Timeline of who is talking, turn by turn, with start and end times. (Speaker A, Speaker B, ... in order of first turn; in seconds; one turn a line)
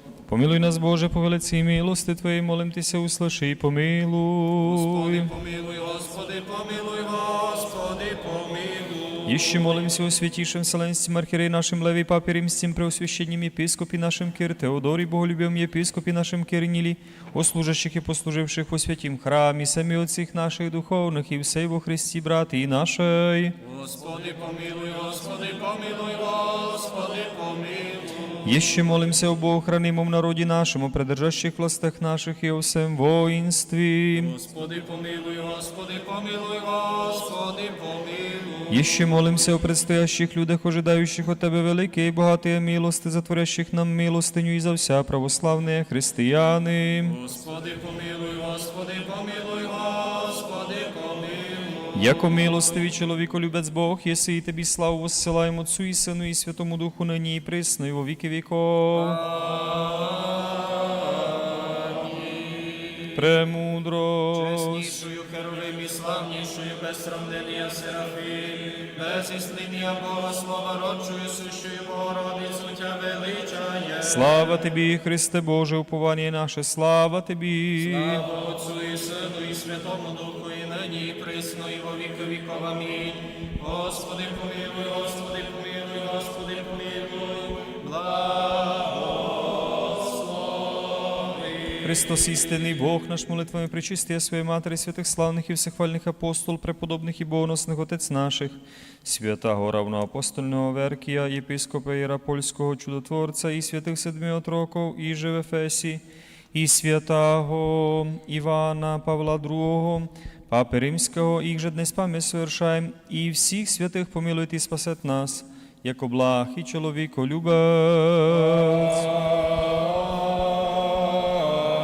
Speaker A: 0.3-5.3
Speaker B: 4.6-9.9
Speaker A: 9.2-23.6
Speaker B: 23.6-28.8
Speaker A: 28.4-34.3
Speaker B: 34.1-39.5
Speaker A: 38.7-47.1
Speaker B: 47.0-52.5
Speaker A: 51.9-59.2
Speaker B: 58.9-62.2
Speaker A: 63.1-64.9
Speaker B: 64.3-74.7
Speaker A: 74.0-78.2
Speaker B: 77.8-92.4
Speaker A: 91.8-119.1